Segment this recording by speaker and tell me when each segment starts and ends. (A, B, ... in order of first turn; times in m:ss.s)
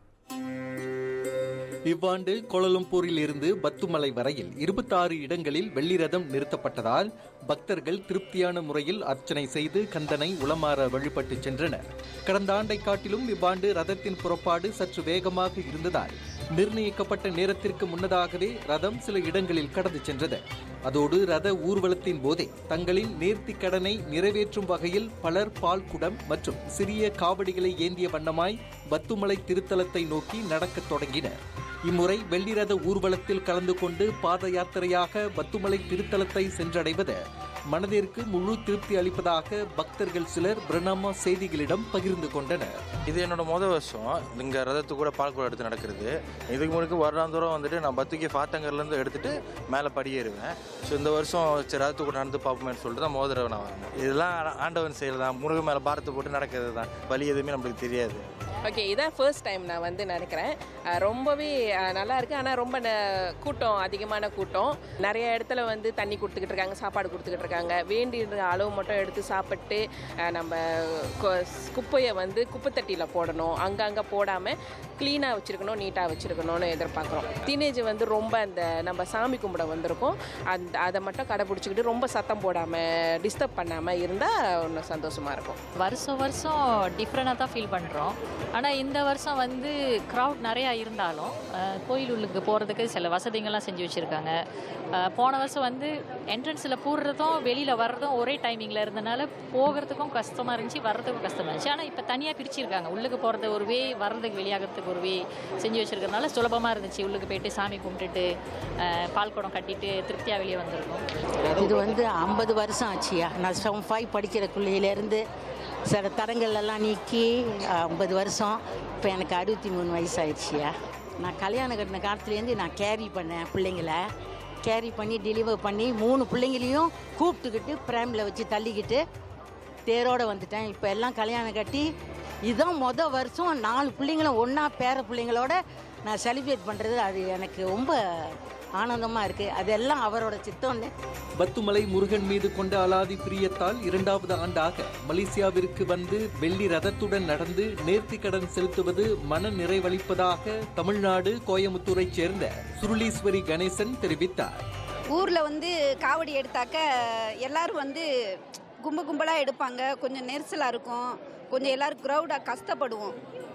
0:01.9-0:37.2 A
0:37.7-0:42.8 A
0:43.1-0:58.2 B
0:58.6-1:25.6 C
1:25.8-1:34.4 D
1:35.0-1:48.3 D
1:48.8-1:51.0 D
1:51.6-1:55.2 E
1:55.9-2:04.0 E
2:04.6-2:09.0 E
2:09.9-2:11.9 E
2:12.5-2:20.9 E
2:21.4-2:34.6 A
2:35.1-2:36.8 F
2:37.4-2:38.0 F
2:38.8-2:43.2 F